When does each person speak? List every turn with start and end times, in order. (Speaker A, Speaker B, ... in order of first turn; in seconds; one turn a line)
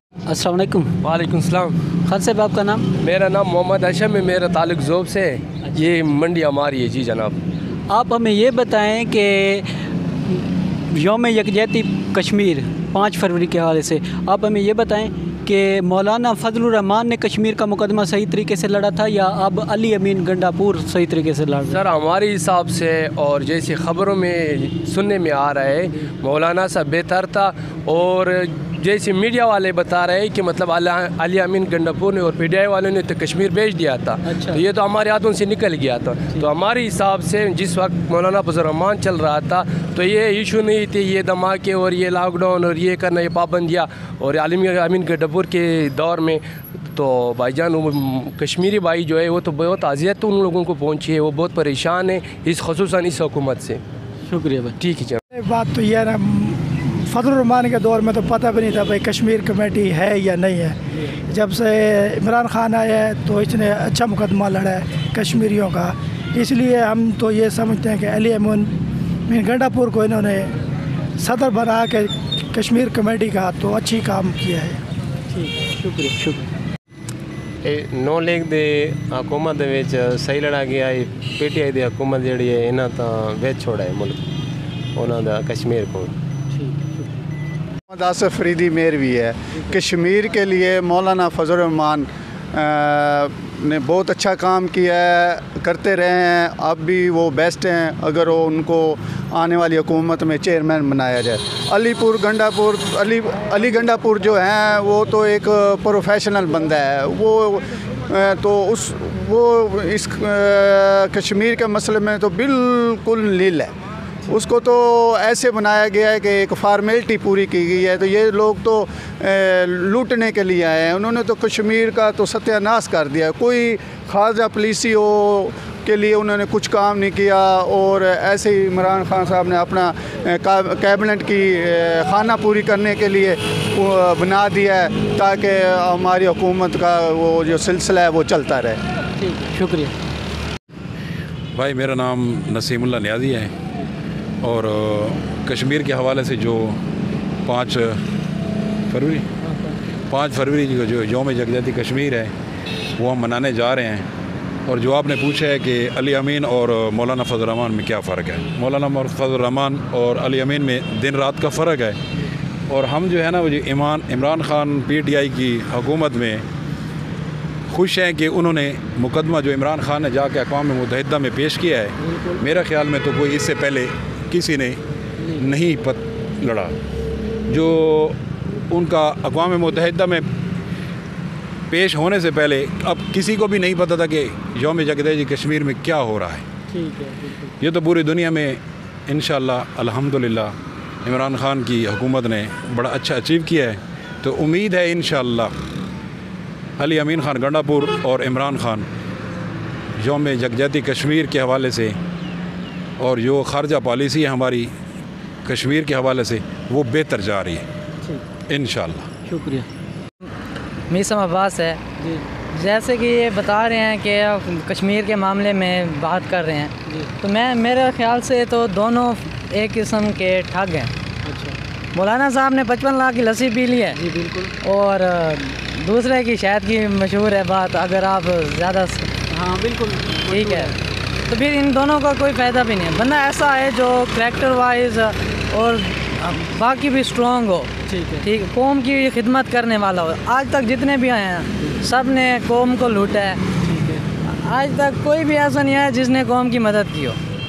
Speaker A: 0.3-1.0
Speaker B: 1.0-1.8
Speaker A: 2.1-2.9
Speaker B: 3.0-7.4
Speaker A: 7.9-9.7
Speaker A: 10.3-21.8
Speaker B: 21.7-46.4
Speaker A: 34.3-34.6
Speaker B: 46.9-53.8
Speaker A: 54.3-54.8
Speaker B: 54.8-55.2
Speaker C: 55.3-60.8
Speaker C: 61.3-68.7
Speaker C: 69.3-70.5
Speaker C: 71.2-74.8
Speaker A: 75.3-76.5
Speaker D: 77.6-84.2
Speaker D: 85.0-86.2
Speaker A: 86.5-87.2
Speaker E: 87.9-113.7
Speaker E: 114.3-138.8
Speaker A: 139.2-139.9
Speaker F: 141.6-143.5
Speaker F: 144.4-146.8
Speaker F: 147.4-148.0
Speaker F: 148.9-149.3
Speaker A: 149.4-149.8
Speaker F: 150.1-152.3
Speaker F: 153.0-154.1
Speaker F: 154.7-162.0
Speaker F: 162.7-166.4
Speaker F: 167.7-174.8
Speaker F: 175.3-176.7
Speaker F: 177.5-178.2
Speaker F: 178.7-180.3
Speaker F: 181.7-186.4
Speaker A: 186.7-187.5
Speaker F: 187.6-190.5
Speaker F: 191.1-195.5
Speaker F: 196.8-198.8
Speaker F: 200.0-201.9
Speaker F: 203.0-204.7
Speaker F: 205.4-207.7
Speaker F: 208.5-209.1
Speaker A: 209.3-209.7
Speaker G: 210.9-211.8
Speaker G: 212.5-220.9
Speaker A: 221.3-221.6
Speaker G: 221.9-224.0
Speaker A: 223.9-224.5
Speaker G: 224.6-229.1
Speaker A: 229.3-230.8
Speaker G: 230.3-230.7
Speaker G: 231.3-237.7
Speaker A: 237.9-238.3
Speaker G: 238.2-243.4
Speaker A: 243.7-244.0
Speaker G: 244.3-247.2